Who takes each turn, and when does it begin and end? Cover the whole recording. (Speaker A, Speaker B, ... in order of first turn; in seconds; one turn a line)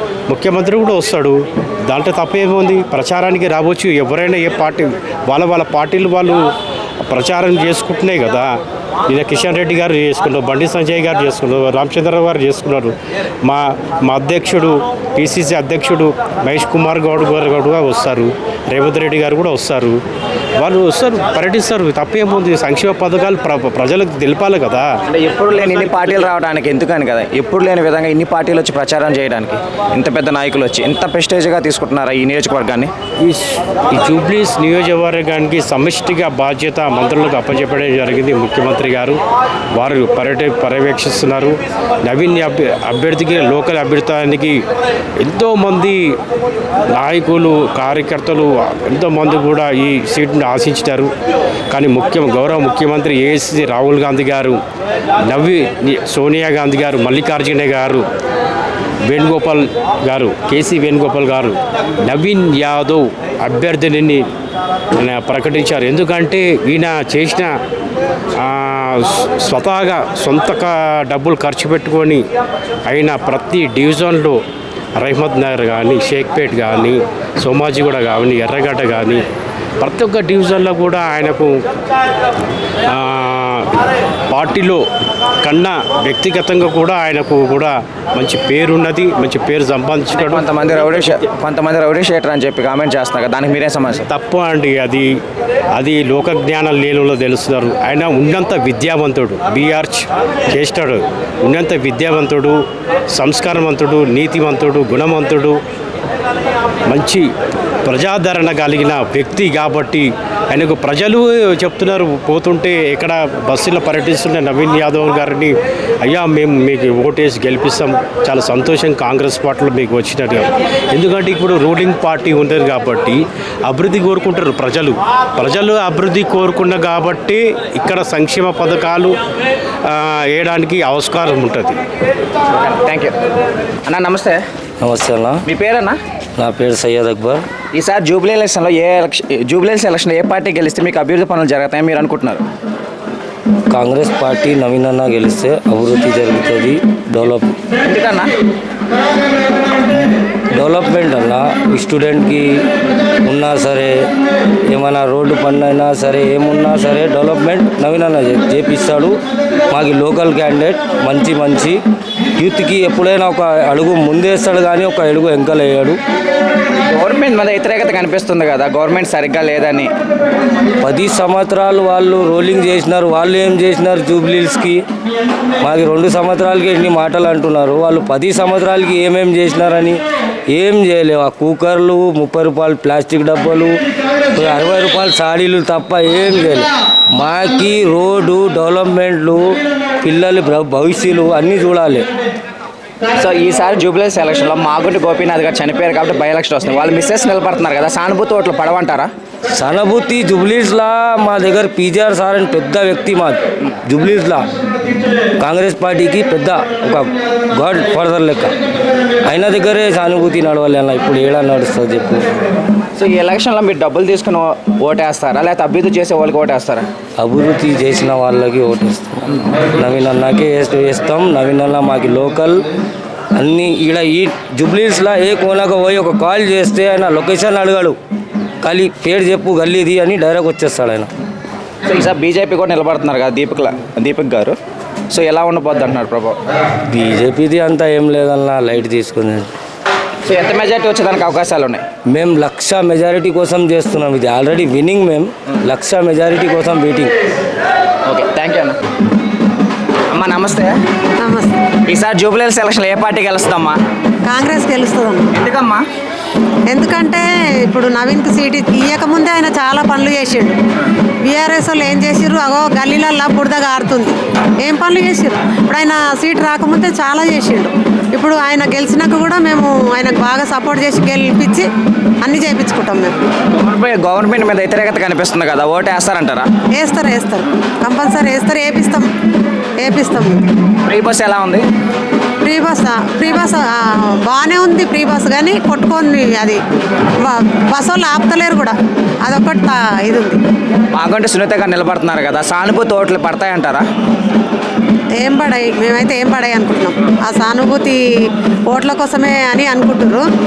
Speaker A: 0.3-6.4
Speaker A: 7.0-8.6
Speaker A: 9.1-20.0
Speaker A: 20.6-24.9
Speaker B: 25.1-32.9
Speaker A: 25.6-26.0
Speaker A: 33.2-39.2
Speaker A: 39.8-44.6
Speaker A: 45.2-46.2
Speaker A: 46.9-51.1
Speaker A: 51.7-54.6
Speaker A: 55.3-58.0
Speaker A: 59.1-64.3
Speaker A: 65.0-67.5
Speaker A: 68.4-72.2
Speaker A: 72.9-74.4
Speaker A: 75.0-79.2
Speaker A: 79.8-81.5
Speaker A: 82.9-83.7
Speaker A: 84.3-84.8
Speaker A: 85.4-91.2
Speaker B: 90.1-94.1
Speaker A: 94.1-95.1
Speaker A: 95.8-102.6
Speaker A: 103.1-105.6
Speaker A: 106.9-107.3
Speaker A: 107.8-129.2
Speaker A: 129.9-131.8
Speaker B: 132.6-133.2
Speaker B: 133.9-134.4
Speaker C: 134.8-135.4
Speaker B: 135.5-136.0
Speaker C: 136.4-137.4
Speaker B: 137.7-142.4
Speaker C: 143.7-147.6
Speaker B: 147.8-148.3
Speaker C: 150.0-152.5
Speaker C: 153.2-154.0
Speaker C: 154.7-159.2
Speaker C: 159.7-161.8
Speaker C: 162.4-166.0
Speaker B: 166.8-169.9
Speaker C: 170.8-174.8
Speaker C: 175.6-183.8
Speaker C: 184.3-192.1
Speaker B: 193.2-199.1
Speaker C: 199.5-204.4
Speaker C: 205.4-208.5
Speaker C: 209.3-212.2
Speaker B: 213.0-216.9
Speaker C: 217.2-222.6
Speaker C: 223.4-228.0
Speaker C: 228.6-231.1
Speaker B: 231.9-234.6
Speaker B: 235.1-236.4
Speaker C: 236.9-239.5
Speaker B: 240.2-241.8
Speaker C: 242.1-247.1
Speaker B: 248.1-248.8
Speaker B: 250.1-250.8
Speaker D: 251.2-251.6
Speaker B: 251.9-253.8
Speaker D: 254.2-255.3
Speaker B: 255.3-255.8
Speaker D: 256.7-260.6
Speaker D: 261.2-271.7
Speaker D: 272.2-273.2
Speaker B: 273.5-276.5
Speaker D: 276.7-279.1
Speaker D: 279.8-280.5
Speaker B: 280.9-281.6
Speaker D: 282.4-286.6
Speaker D: 287.2-290.4
Speaker B: 290.9-293.9
Speaker D: 295.1-300.3